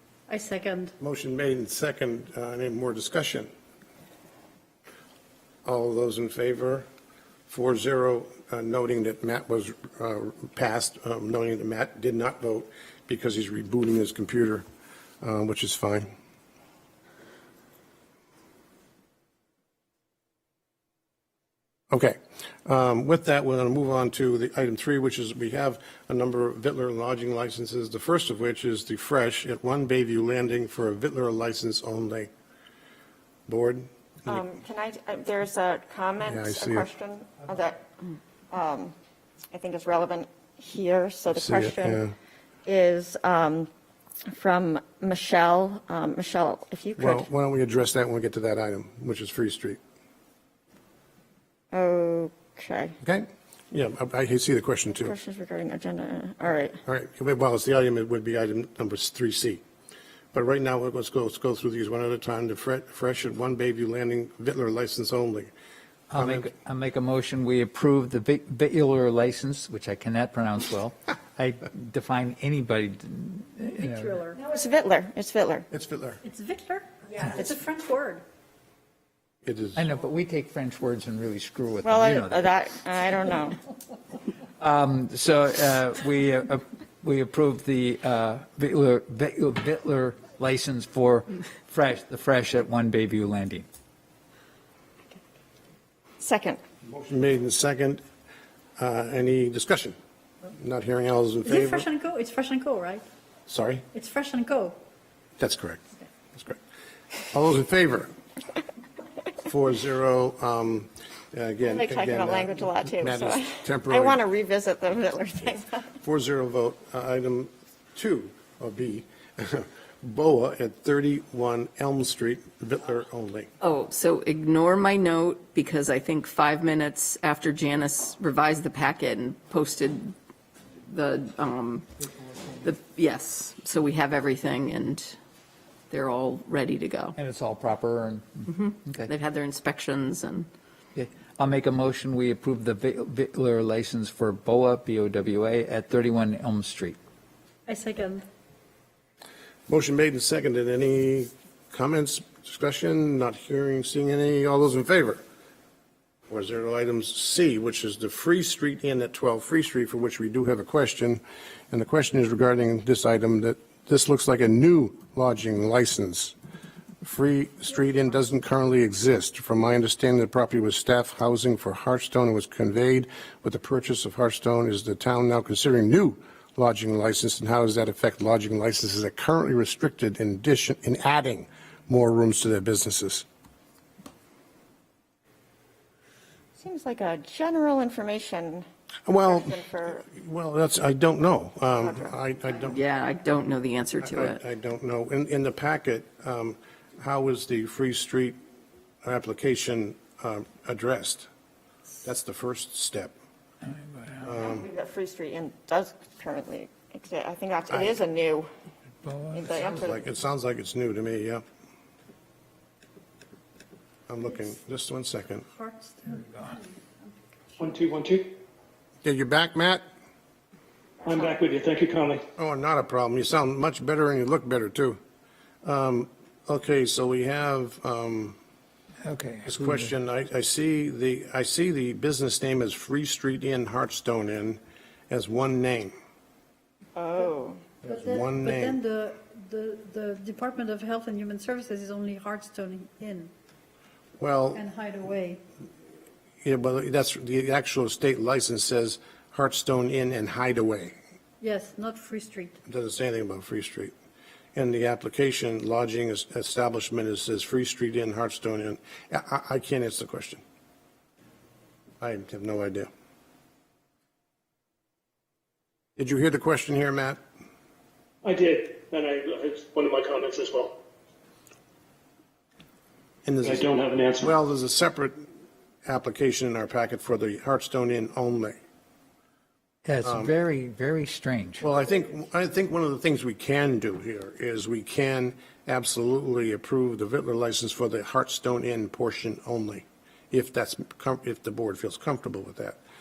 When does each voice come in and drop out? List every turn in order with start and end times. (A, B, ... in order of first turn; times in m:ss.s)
0:00.3-0:00.9 A
0:01.0-0:03.5 B
0:05.6-0:06.8 B
0:07.5-0:14.6 B
0:15.2-0:16.1 B
0:21.9-0:32.3 B
0:33.5-0:34.4 B
0:34.2-0:37.8 C
0:36.2-0:36.9 B
0:38.5-0:38.9 C
0:39.5-0:42.0 C
0:41.3-0:42.1 B
0:42.6-0:43.7 C
0:44.3-0:47.3 C
0:47.0-0:49.8 B
0:51.7-0:53.0 C
0:53.0-0:55.1 B
0:55.0-0:56.8 C
0:56.8-0:59.6 B
1:00.3-1:05.5 B
1:06.1-1:14.1 D
1:06.1-1:06.5 B
1:13.7-1:14.4 A
1:14.4-1:15.7 C
1:15.7-1:16.2 B
1:16.2-1:18.2 A
1:19.4-1:19.9 B
1:19.8-1:22.5 D
1:21.8-1:23.6 C
1:24.6-1:33.6 D
1:36.2-1:36.6 C
1:36.8-1:38.0 B
1:38.8-1:40.0 B
1:40.6-1:41.8 B
1:41.4-1:43.0 A
1:43.5-1:43.8 B
1:43.9-1:44.8 A
1:45.4-1:46.6 B
1:47.3-1:48.1 B
1:49.4-1:54.2 B
1:51.6-1:55.9 C
1:56.0-2:03.5 B
2:03.6-2:10.1 E
2:10.9-2:11.9 E
2:12.6-2:15.2 E
2:15.9-2:17.2 E
2:17.2-2:19.1 D
2:18.5-2:20.5 E
2:20.9-2:27.0 D
2:27.7-2:28.2 A
2:29.7-2:35.2 B
2:36.3-2:46.3 B
2:47.0-3:03.2 B
3:06.6-3:08.6 C
3:09.1-3:09.5 B
3:09.2-3:10.1 C
3:10.1-3:12.8 B
3:11.8-3:12.1 C
3:12.7-3:14.4 E
3:14.0-3:18.4 B
3:19.0-3:21.3 B
3:22.0-3:23.1 B
3:23.6-3:24.3 D
3:24.2-3:24.6 B
3:24.4-3:28.5 C
3:27.7-3:28.0 B
3:29.0-3:29.6 D
3:29.3-3:30.0 C
3:29.5-3:31.4 B
3:34.1-3:35.5 B
3:35.5-3:36.7 A
3:37.6-3:38.3 F
3:39.0-3:39.8 B
3:41.0-3:42.2 F
3:42.4-3:45.0 B
3:45.6-3:48.4 B
3:49.0-3:49.9 D
3:49.4-3:55.9 B
3:56.9-3:57.6 C
3:57.8-3:58.8 B
3:57.9-4:03.3 A
4:04.2-4:04.7 B
4:04.5-4:05.4 A
4:06.4-4:11.0 B
4:11.4-4:12.6 A
4:12.6-4:13.9 B
4:14.5-4:20.4 B
4:22.0-4:22.9 B
4:26.0-4:27.2 B
4:28.2-4:30.8 F
4:33.2-4:33.6 B
4:33.4-4:34.3 F
4:34.2-4:35.2 B
4:35.8-4:38.6 B
4:39.8-4:41.6 D
4:40.0-4:40.3 B
4:41.6-4:52.8 B